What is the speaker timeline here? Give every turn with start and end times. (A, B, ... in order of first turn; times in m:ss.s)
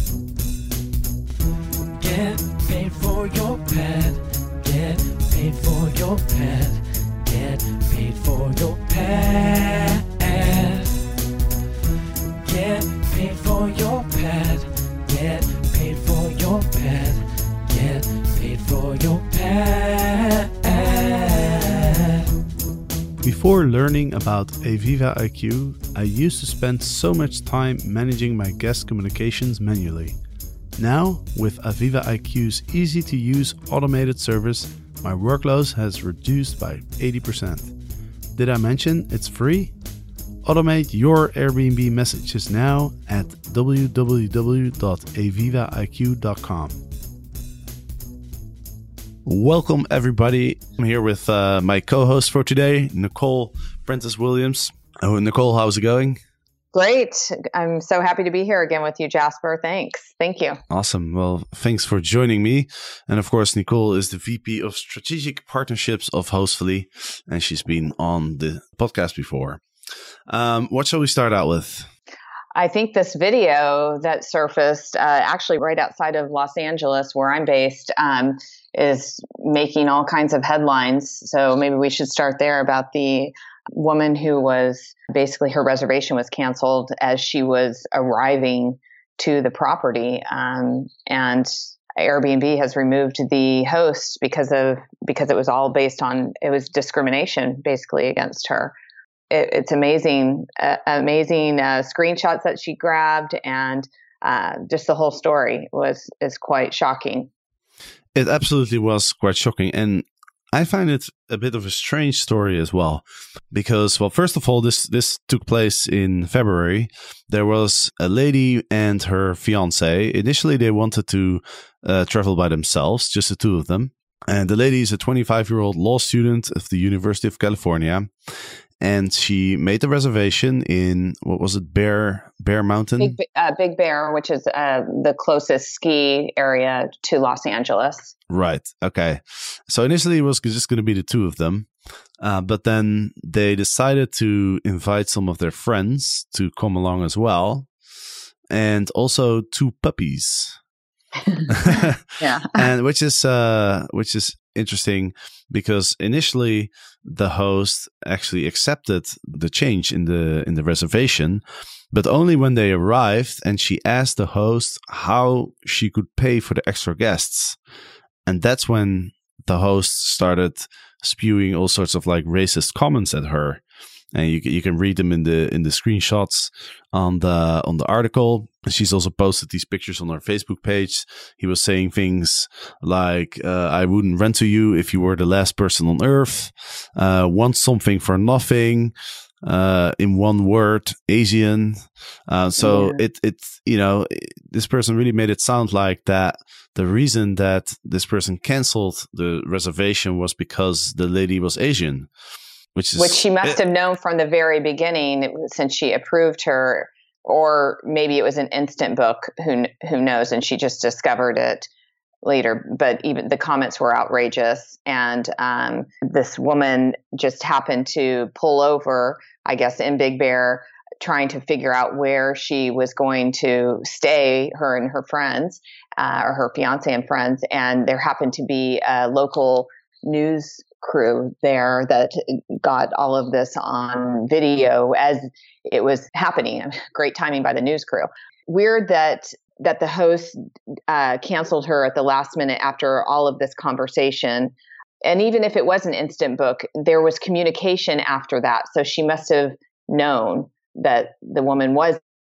0:02.0-0:11.0 A
0:12.4-0:22.2 A
0:23.2-0:30.2 B
0:30.8-0:37.7 B
0:38.4-0:39.7 B
0:40.4-0:46.8 B
0:49.2-0:56.2 B
0:56.7-1:00.6 C
1:00.7-1:09.6 B
1:10.3-1:11.9 B
1:12.6-1:38.7 C
1:39.3-1:47.3 C
1:48.2-2:08.1 B
2:08.8-2:13.2 B
2:13.0-2:18.1 C
2:18.3-2:27.7 B
2:28.5-2:30.6 B
2:31.2-2:32.7 C
2:31.5-2:47.6 B
2:48.3-2:53.6 B
2:54.1-3:22.1 B
3:12.6-3:13.0 C
3:22.8-3:23.6 B
3:23.0-3:31.7 C
3:32.2-4:00.4 C
4:00.9-4:04.5 C
4:05.0-4:12.0 C